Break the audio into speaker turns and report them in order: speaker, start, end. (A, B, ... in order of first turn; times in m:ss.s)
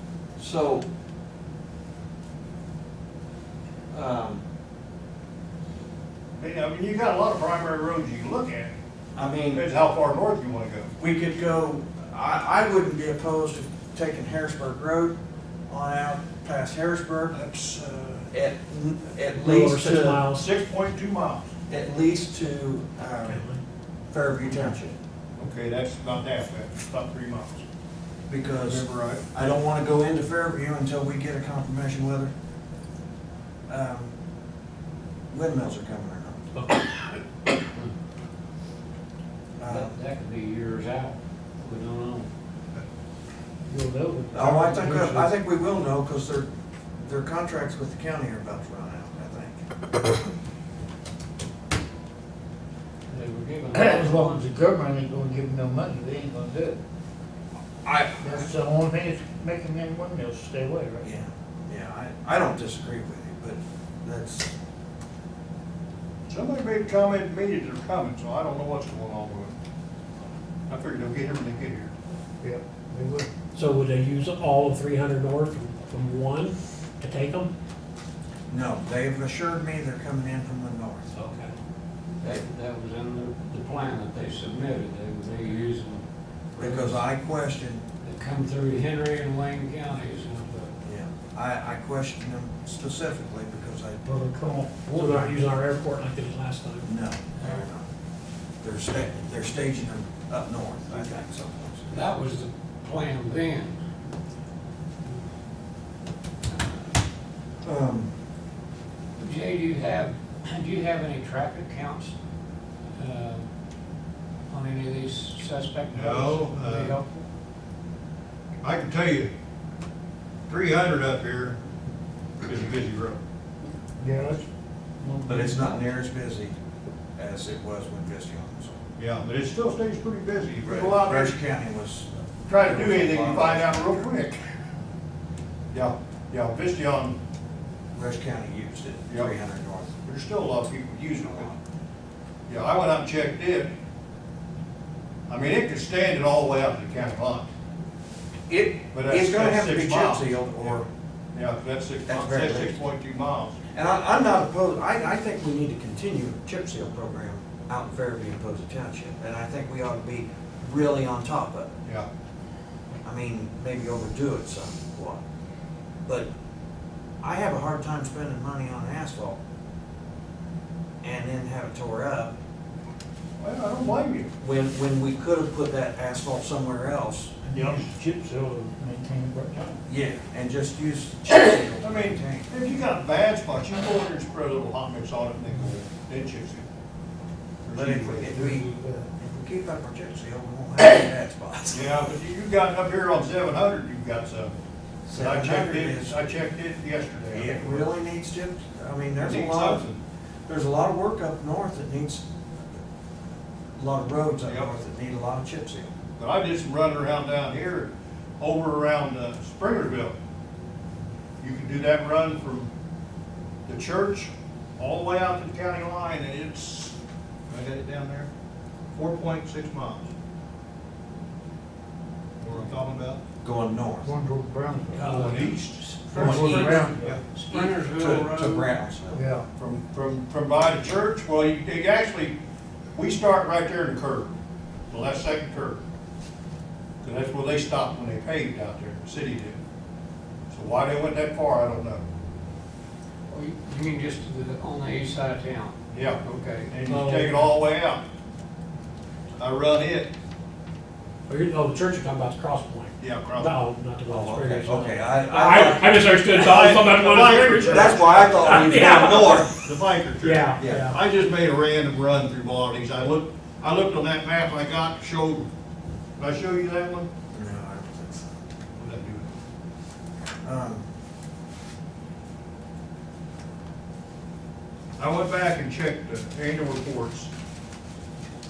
0:00.4-0:00.8 A
0:03.9-0:04.4 A
0:06.4-0:08.7 B
0:09.1-0:09.6 A
0:09.4-0:10.9 B
0:11.0-0:15.2 A
0:15.7-0:17.4 A
0:17.3-0:18.3 B
0:18.3-0:20.2 A
0:19.3-0:20.4 C
0:20.3-0:21.5 B
0:21.7-0:23.4 A
0:23.2-0:23.6 C
0:24.1-0:25.0 A
0:25.4-0:27.6 B
0:28.3-0:32.3 A
0:28.6-0:29.2 B
0:33.7-0:34.1 A
0:35.3-0:36.4 A
0:36.5-0:37.2 C
0:39.6-0:40.0 A
0:39.6-0:42.3 D
0:43.7-0:45.3 E
0:44.3-0:50.1 A
0:53.1-0:54.5 D
0:53.7-0:56.8 E
0:57.8-0:58.5 A
0:58.2-1:01.1 E
1:01.0-1:04.5 A
1:06.3-1:09.5 B
1:10.7-1:11.9 B
1:12.4-1:13.3 E
1:13.5-1:17.5 C
1:18.5-1:21.0 A
1:21.1-1:21.5 C
1:22.2-1:27.1 D
1:26.6-1:27.8 A
1:28.0-1:30.7 D
1:30.8-1:34.0 A
1:34.0-1:35.4 E
1:34.9-1:36.9 C
1:36.8-1:37.9 A
1:37.4-1:37.6 D
1:38.6-1:42.0 A
1:40.9-1:41.2 D
1:41.9-1:43.8 D
1:46.5-1:47.0 D
1:47.6-1:48.1 A
1:49.2-1:52.1 D
1:52.9-1:53.4 D
1:54.5-1:57.2 D
1:55.9-1:57.0 B
1:58.6-1:59.3 B
2:00.5-2:01.6 B
2:02.4-2:03.2 B
2:04.0-2:04.4 E
2:05.0-2:05.8 E
2:05.2-2:06.5 A
2:07.2-2:08.8 A
2:09.0-2:11.4 B
2:10.6-2:14.1 A
2:12.5-2:14.4 B
2:15.7-2:17.2 B
2:17.9-2:19.9 A
2:19.1-2:19.3 B
2:20.0-2:21.5 B
2:22.5-2:23.7 B
2:25.3-2:27.5 B
2:28.5-2:30.9 A
2:28.9-2:30.8 B
2:31.3-2:33.6 B
2:32.1-2:32.8 A
2:33.7-2:41.7 A
2:43.0-2:45.2 A
2:47.2-2:49.4 A
2:51.0-2:52.3 A
2:53.4-2:54.3 B
2:54.4-2:57.4 A
2:57.4-2:59.8 E
2:59.9-3:02.5 A
3:01.8-3:06.6 B
3:07.6-3:08.5 B
3:07.7-3:12.0 A
3:08.3-3:09.0 E
3:11.7-3:14.6 B
3:15.0-3:16.3 A
3:15.1-3:17.9 B
3:17.3-3:19.8 A
3:19.2-3:20.0 B
3:20.5-3:22.2 A
3:23.8-3:25.9 A
3:24.4-3:24.7 B
3:26.2-3:30.2 B
3:31.4-3:32.7 B
3:33.6-3:36.9 B
3:37.5-3:38.3 B
3:38.9-3:40.1 B
3:42.4-3:43.2 B
3:43.4-3:44.1 A
3:44.0-3:45.5 E
3:44.9-3:48.7 D
3:45.0-3:47.2 B
3:46.1-3:46.9 A
3:46.1-3:47.1 E
3:47.5-3:49.2 A
3:49.1-3:49.4 E
3:49.6-3:52.4 B
3:52.9-3:54.3 B
3:54.9-3:55.8 B
3:57.0-3:59.6 B
4:00.5-4:02.0 B
4:03.3-4:06.7 D
4:05.9-4:08.0 B
4:06.8-4:07.5 C
4:09.4-4:10.1 B
4:11.3-4:19.5 C
4:13.0-4:13.5 B
4:14.1-4:16.0 A
4:16.3-4:25.5 B
4:17.7-4:19.5 A
4:20.2-4:21.0 C
4:20.6-4:20.8 A
4:26.2-4:27.1 B
4:27.3-4:28.3 A
4:28.8-4:29.3 B
4:30.4-4:30.8 A
4:35.0-4:37.3 B